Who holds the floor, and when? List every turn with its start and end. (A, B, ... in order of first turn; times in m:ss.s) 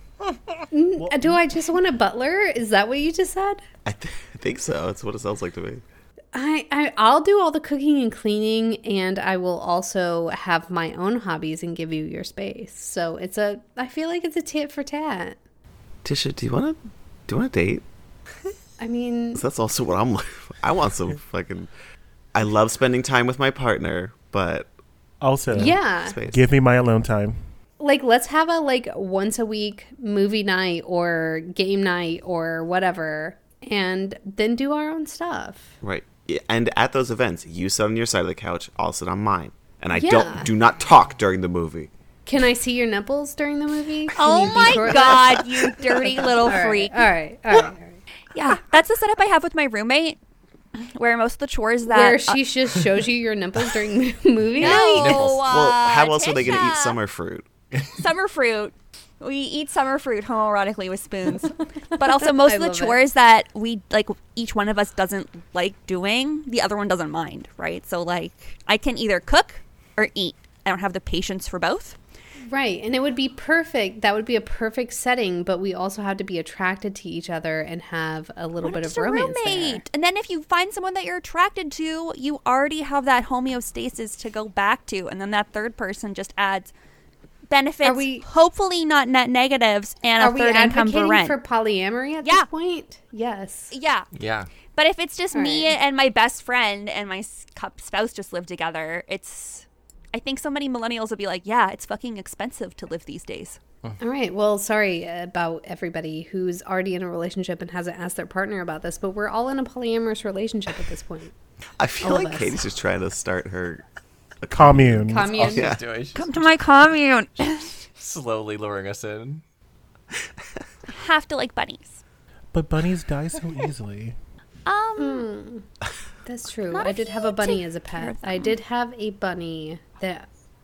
0:00.7-0:03.6 A
0:01.0-0:01.4 B
0:03.8-0:05.8 C
0:06.3-0:15.4 A
0:16.0-0:17.8 C
0:18.8-0:19.4 A
0:19.3-0:21.7 C
0:22.3-0:24.7 C
0:25.2-0:27.4 B
0:25.5-0:26.4 C
0:25.6-0:26.2 A
0:27.8-0:35.8 A
0:35.8-0:41.9 C
0:39.9-0:40.5 A
0:42.2-0:48.0 A
0:44.1-0:47.1 D
0:48.3-0:50.2 D
0:50.8-0:52.4 D
0:51.9-0:55.2 A
0:54.6-0:57.0 D
0:54.6-0:55.4 E
0:55.4-0:57.5 C
0:57.8-1:12.0 D
1:02.1-1:03.0 A
1:12.5-1:19.8 A
1:18.6-1:26.7 D
1:27.5-1:31.4 D
1:27.8-1:28.3 A
1:30.2-1:33.7 A
1:33.7-1:34.1 D
1:34.1-1:34.5 E
1:34.7-1:43.6 D
1:35.3-1:35.8 A
1:44.0-1:51.3 A
1:51.8-1:53.8 C
1:52.0-1:52.6 A
1:54.4-1:55.8 C
1:54.5-1:55.3 B
1:55.1-1:55.7 A
1:55.3-1:56.6 E
1:56.1-1:57.8 D
1:57.8-1:59.4 E
2:00.9-2:02.0 D
2:02.5-2:04.2 B
2:04.6-2:05.2 D
2:05.0-2:05.6 A
2:06.2-2:10.3 A
2:06.7-2:08.6 D